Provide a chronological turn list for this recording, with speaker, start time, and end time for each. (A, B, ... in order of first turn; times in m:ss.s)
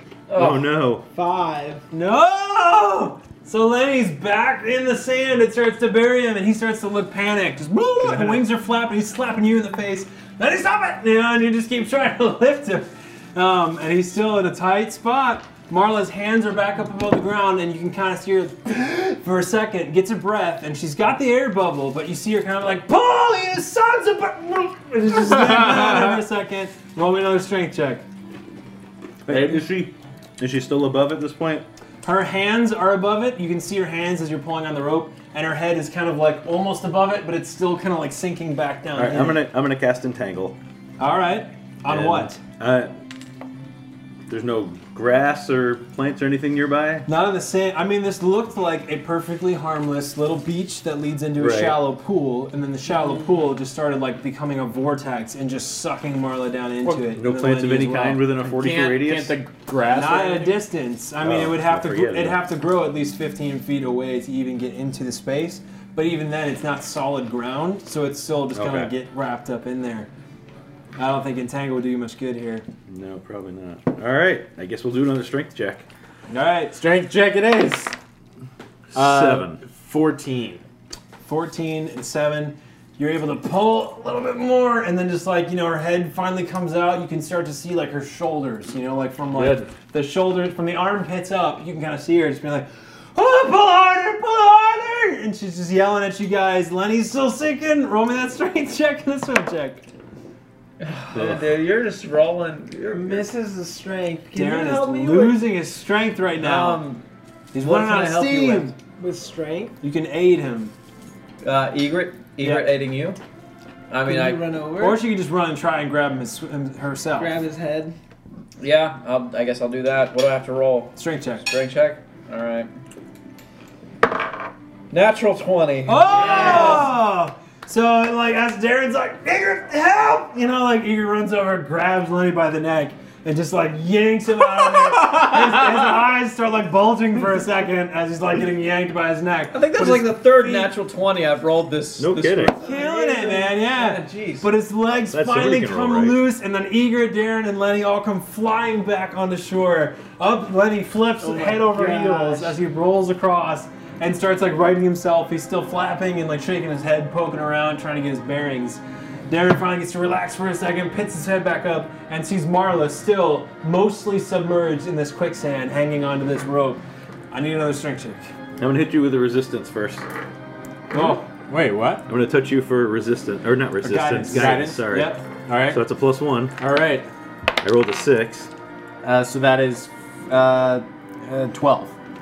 0:00.3-0:00.7 A
0:00.3-0:01.0 B
0:01.1-0:01.8 C
0:01.9-0:28.0 D
0:29.3-0:31.6 B
0:29.3-0:29.6 D
0:32.0-0:39.4 D
0:39.0-0:40.6 B
0:41.0-0:42.4 D
0:41.8-0:42.9 B
0:44.3-0:47.0 B
0:47.0-0:58.4 D
0:51.4-0:51.8 B
0:56.8-0:59.3 B
0:58.4-1:00.6 E
0:59.9-1:10.1 D
1:01.2-1:02.4 B
1:08.5-1:08.9 B
1:11.0-1:12.6 D
1:12.9-1:15.8 B
1:16.3-1:16.8 D
1:16.7-1:17.9 E
1:18.9-1:19.6 B
1:18.9-1:20.6 E
1:21.2-1:39.9 D
1:29.4-1:29.7 B
1:40.8-1:43.3 A
1:41.1-1:41.4 B
1:42.9-1:45.4 C
1:44.3-1:46.8 D
1:46.4-1:47.0 A
1:47.5-1:48.7 D
1:47.6-1:48.7 A
1:49.0-1:49.8 C
1:49.8-1:50.7 D
1:51.4-1:53.2 A
1:52.4-1:52.7 D
1:53.9-1:54.5 A
1:54.0-1:55.0 C
1:54.8-1:57.3 D
1:57.2-1:58.0 C
1:58.6-2:02.7 A
2:01.0-2:01.4 D
2:04.9-2:06.9 A
2:05.8-2:20.7 D
2:06.2-2:06.8 C
2:19.5-2:22.6 A
2:22.0-2:22.6 B
2:22.6-2:24.2 C
2:22.6-2:48.3 D
2:23.8-2:24.4 A
2:25.1-2:26.2 B
2:31.2-2:32.5 C
2:48.6-2:50.0 B
2:50.9-2:51.3 D
2:50.9-2:52.0 E
2:52.0-2:56.6 B
2:53.8-2:55.2 D
2:54.3-2:54.9 E
2:55.4-2:55.8 E
2:56.6-2:57.1 E
2:57.6-2:58.5 B
2:59.0-3:01.9 E